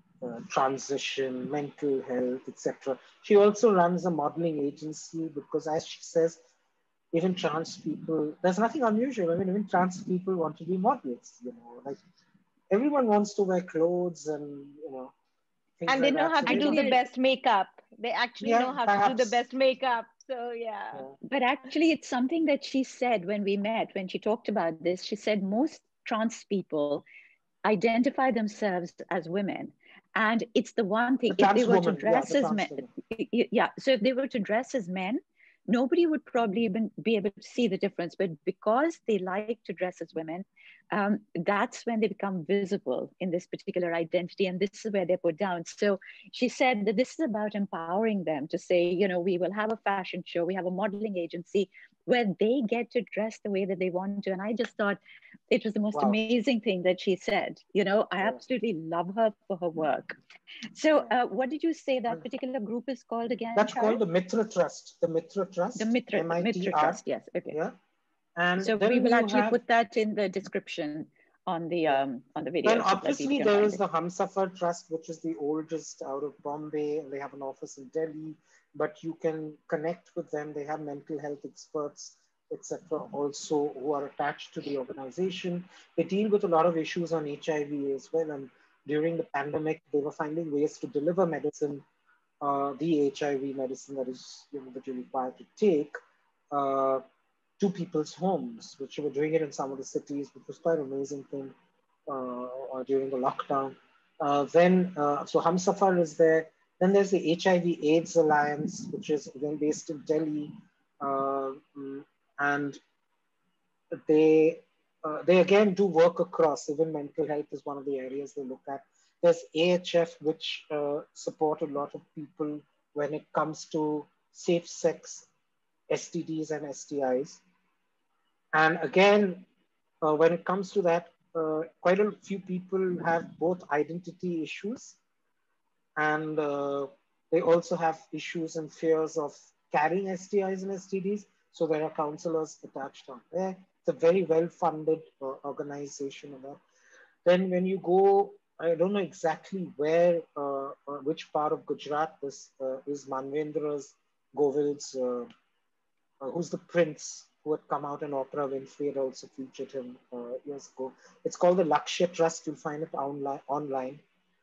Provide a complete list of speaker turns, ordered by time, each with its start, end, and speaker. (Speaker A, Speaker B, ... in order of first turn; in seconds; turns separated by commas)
Speaker A: 0.2-6.4, Speaker A: 7.1-12.0, Speaker A: 12.7-15.1, Speaker A: 15.8-16.9, Speaker B: 15.9-21.1, Speaker C: 16.5-17.0, Speaker A: 18.4-19.4, Speaker C: 21.3-27.1, Speaker C: 27.6-55.0, Speaker A: 31.3-32.9, Speaker C: 55.5-60.2, Speaker C: 60.7-64.0, Speaker A: 63.6-67.8, Speaker C: 65.8-67.6, Speaker A: 68.4-69.6, Speaker C: 68.6-73.8, Speaker A: 72.6-91.8, Speaker A: 92.4-96.0, Speaker A: 96.5-97.0, Speaker A: 97.6-101.5, Speaker A: 102.1-112.8, Speaker A: 114.0-125.3, Speaker A: 125.9-127.4, Speaker A: 128.5-129.4, Speaker A: 130.0-135.0, Speaker A: 135.9-146.6, Speaker A: 147.2-155.3, Speaker A: 156.2-164.0